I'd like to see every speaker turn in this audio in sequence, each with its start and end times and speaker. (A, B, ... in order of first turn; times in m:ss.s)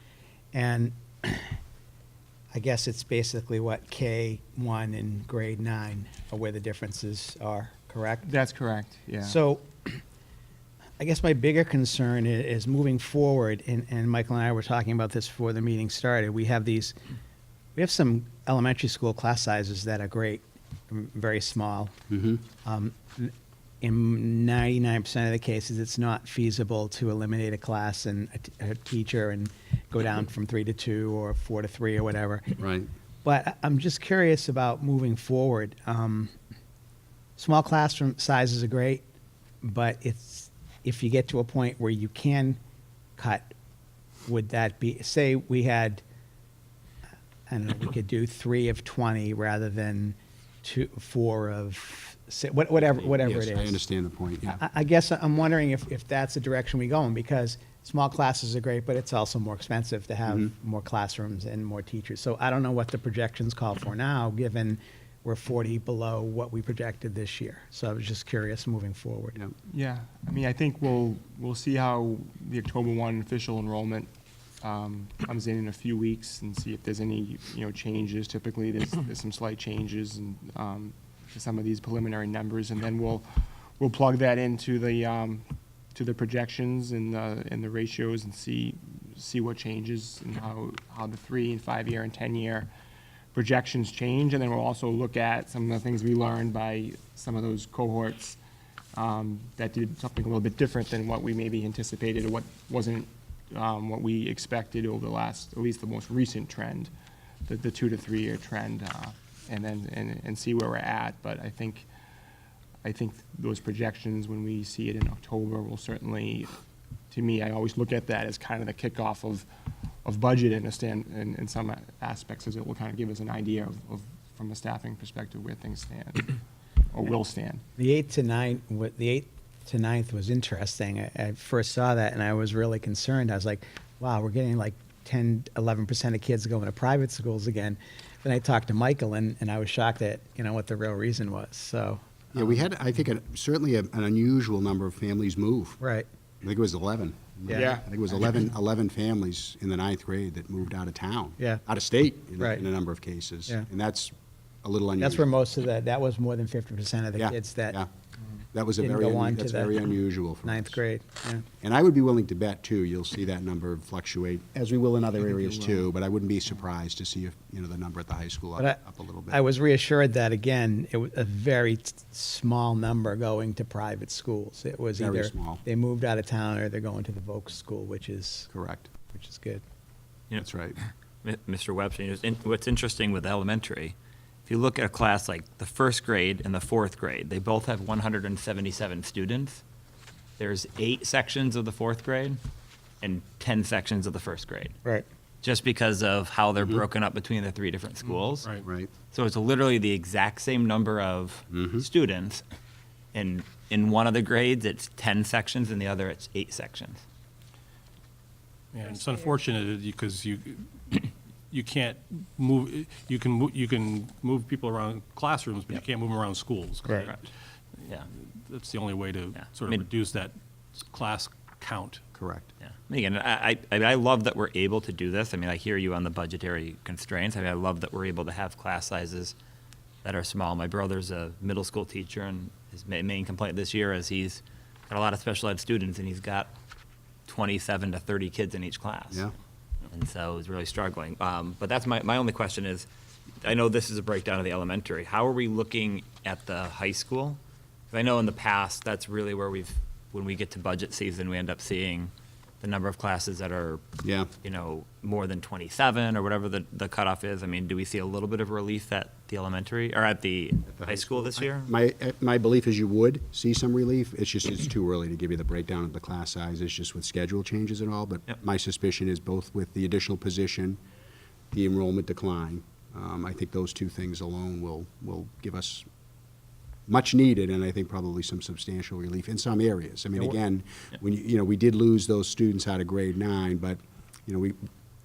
0:00.5-0:01.6 A
0:02.5-0:08.3 A
0:08.3-0:09.4 B
0:09.2-0:10.0 A
0:11.0-0:16.9 A
0:17.8-0:21.9 A
0:22.1-0:22.4 C
0:22.6-0:32.6 A
0:32.6-0:32.9 C
0:33.2-0:36.3 A
0:37.4-0:39.0 A
0:39.6-0:42.6 A
0:43.2-0:43.5 A
0:44.3-0:46.0 A
0:47.5-0:53.8 A
0:53.2-0:54.6 C
0:54.5-1:09.4 A
1:09.7-1:14.1 B
1:14.6-1:32.7 B
1:33.3-1:38.4 B
1:38.9-1:46.9 B
1:47.5-1:51.9 B
1:52.8-1:56.5 B
1:57.1-1:59.5 B
2:00.0-2:06.4 B
2:06.9-2:07.6 B
2:07.8-2:22.6 A
2:22.4-2:25.8 C
2:25.8-2:26.1 A
2:26.4-2:35.2 C
2:27.5-2:27.8 B
2:32.4-2:32.7 A
2:35.0-2:37.8 A
2:37.2-2:37.9 C
2:38.5-2:40.8 C
2:38.8-2:39.7 A
2:40.4-2:41.4 A
2:41.6-2:49.4 C
2:49.3-2:58.5 A
2:55.0-2:55.6 C
2:58.5-2:58.9 C
2:59.1-2:59.6 A
3:00.4-3:00.8 C
3:01.2-3:04.0 D
3:04.5-3:09.6 D
3:10.4-3:12.4 D
3:13.0-3:14.7 D
3:15.4-3:18.5 D
3:18.6-3:18.9 C
3:19.1-3:22.4 D
3:21.5-3:21.8 C
3:23.1-3:27.0 D
3:28.7-3:37.3 E
3:37.8-3:42.1 E
3:39.4-3:39.9 D
3:42.1-3:42.5 C
3:42.6-3:49.4 D
3:50.0-3:56.5 D
3:57.3-3:59.3 D
3:59.9-4:02.9 D
4:03.4-4:07.4 D
4:07.9-4:13.8 D
4:14.0-4:14.3 C
4:14.4-4:21.7 D
4:20.7-4:30.8 C
4:31.5-4:35.8 C
4:36.9-4:44.7 C